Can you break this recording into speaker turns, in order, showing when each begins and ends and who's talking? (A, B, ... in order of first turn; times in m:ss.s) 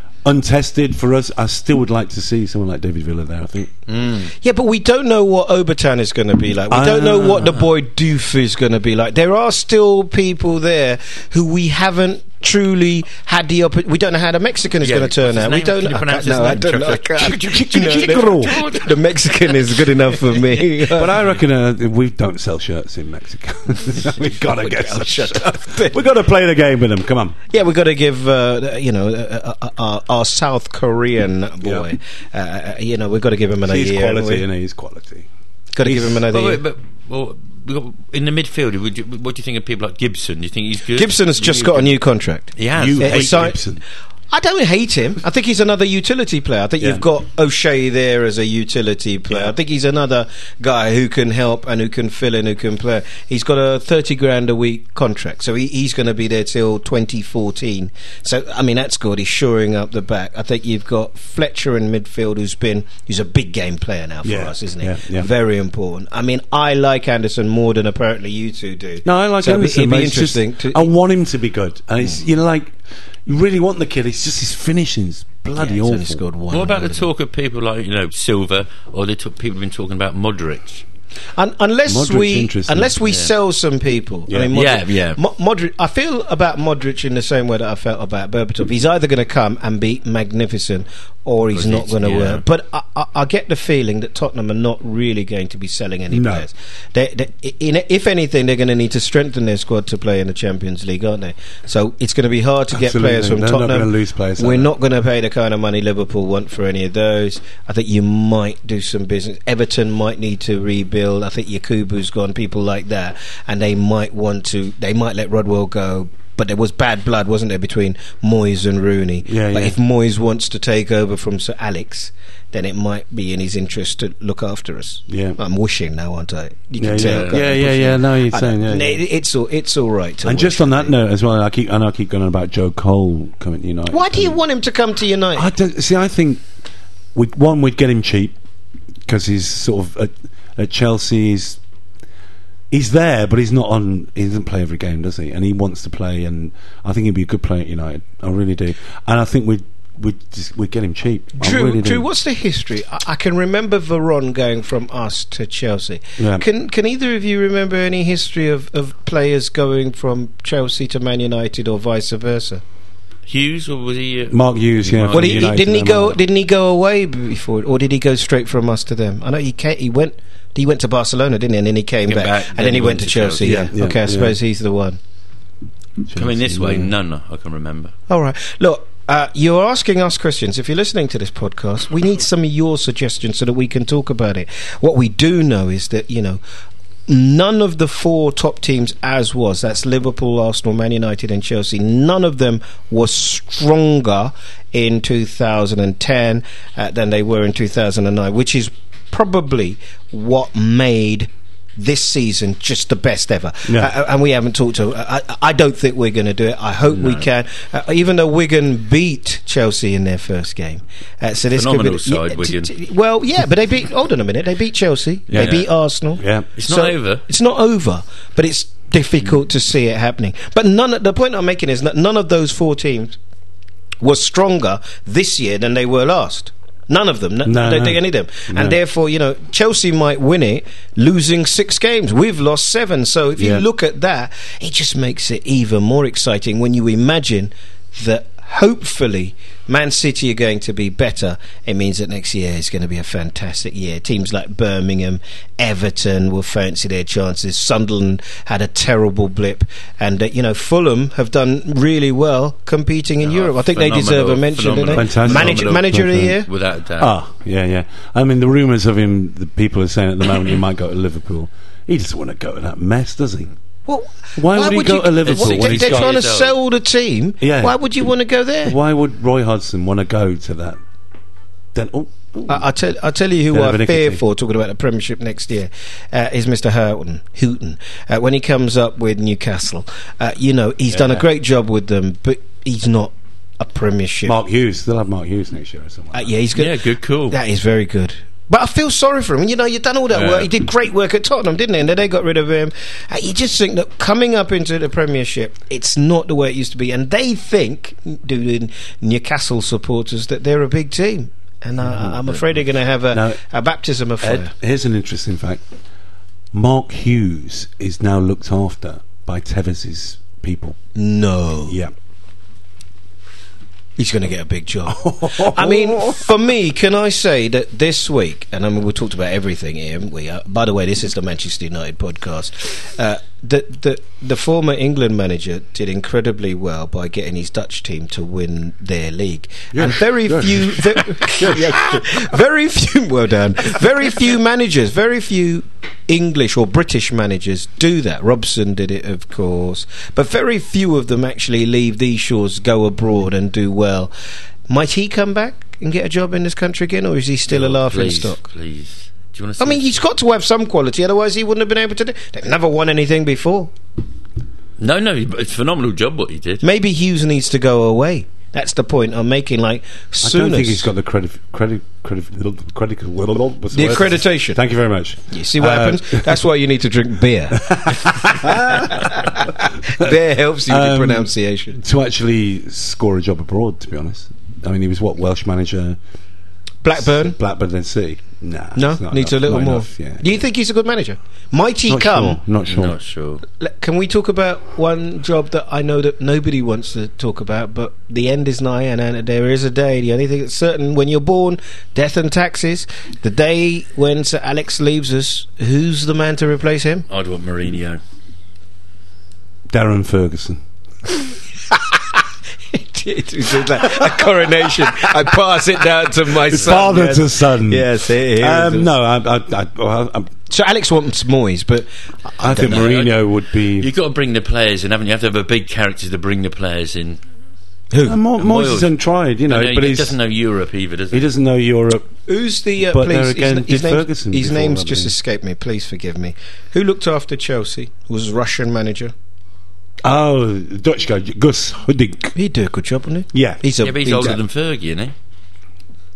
0:00.2-0:03.7 A
0:03.9-0:04.3 B
0:04.4-0:21.1 C
0:06.7-0:07.5 A
0:14.8-0:18.9 B
0:17.2-0:18.6 A
0:20.9-0:27.4 A
0:24.0-0:26.0 C
0:27.5-0:34.4 C
0:33.6-0:35.3 A
0:35.7-0:36.6 C
0:35.8-0:36.2 A
0:36.3-0:41.9 B
0:40.9-0:43.6 C
0:42.6-0:43.6 B
0:42.7-0:43.8 A
0:44.3-1:10.9 C
1:04.2-1:05.3 A
1:09.0-1:16.2 A
1:15.6-1:17.1 C
1:16.5-1:20.8 B
1:21.4-2:10.9 C
1:21.9-1:22.9 A
1:23.0-1:23.3 B
1:24.5-1:25.2 B
1:31.5-1:32.4 B
1:36.1-1:36.4 A
1:42.7-1:44.7 A
1:59.2-1:59.7 A
2:05.1-2:05.4 A
2:06.8-2:09.0 A
2:07.0-2:07.4 B
2:10.2-2:14.3 A
2:13.9-2:15.5 C
2:15.4-2:16.4 A
2:17.1-2:18.3 A
2:19.0-2:21.6 A
2:22.7-2:32.0 A
2:31.4-2:42.6 C
2:36.2-2:36.4 A
2:43.3-2:45.5 B
2:44.3-2:46.2 A
2:45.1-2:55.0 C
2:52.1-2:53.7 B
2:53.4-2:54.4 A
2:56.1-2:56.9 A
2:56.1-2:57.9 B
2:58.1-3:06.4 C
3:07.1-3:43.2 C
3:26.9-3:27.2 B
3:31.5-3:32.7 B
3:35.3-3:35.7 B
3:35.3-3:35.6 A
3:36.2-3:36.5 A
3:36.6-3:37.2 B
3:44.0-4:16.5 C
3:47.4-3:48.8 A
3:53.4-3:53.6 A
4:13.2-4:15.9 B
4:14.9-4:16.4 A
4:16.4-4:17.1 B
4:17.0-4:23.5 A
4:23.9-4:28.8 C
4:24.4-4:26.2 A
4:25.2-4:26.6 B
4:27.4-4:27.8 A
4:28.6-4:30.8 A
4:31.7-4:32.6 A
4:32.4-4:44.4 C
4:33.5-4:34.2 A
4:40.9-4:41.2 A
4:44.2-4:46.3 A
4:46.1-5:04.5 C
4:46.5-4:47.4 B
4:50.1-4:50.5 B
5:01.8-5:02.4 A
5:03.1-5:03.4 A
5:04.2-5:05.6 A
5:06.5-5:10.8 A
5:10.9-5:11.8 C
5:11.7-5:11.9 A
5:14.0-5:44.1 C
5:14.9-5:16.3 A
5:29.7-5:32.0 A
5:44.7-5:48.4 C
5:47.5-5:49.9 B
5:49.6-5:53.7 C
5:54.8-5:56.6 B
5:56.6-6:00.9 C
6:00.2-6:06.3 A
6:03.7-6:04.6 C
6:05.3-6:11.8 C
6:07.5-6:10.1 A
6:10.7-6:16.0 A
6:16.8-6:17.4 C
6:17.0-6:20.3 A
6:18.7-6:22.4 C
6:21.9-6:23.0 A
6:22.6-6:23.4 B
6:23.6-6:37.0 C
6:37.1-6:38.0 B
6:39.7-6:40.6 A
6:41.7-6:42.0 C
6:42.7-6:48.9 C
6:46.4-6:50.3 A
6:50.5-6:52.9 C
6:52.4-6:53.9 A
6:52.6-6:53.2 B
6:53.8-6:57.2 B
6:57.9-6:58.2 C
6:58.0-7:00.2 A
6:58.4-6:58.9 B
6:59.5-7:01.3 B
7:01.1-7:02.1 A
7:02.2-7:09.1 C
7:02.8-7:05.1 A
7:10.0-7:12.3 A
7:12.3-7:14.4 C
7:13.3-7:13.6 A
7:13.8-7:15.1 B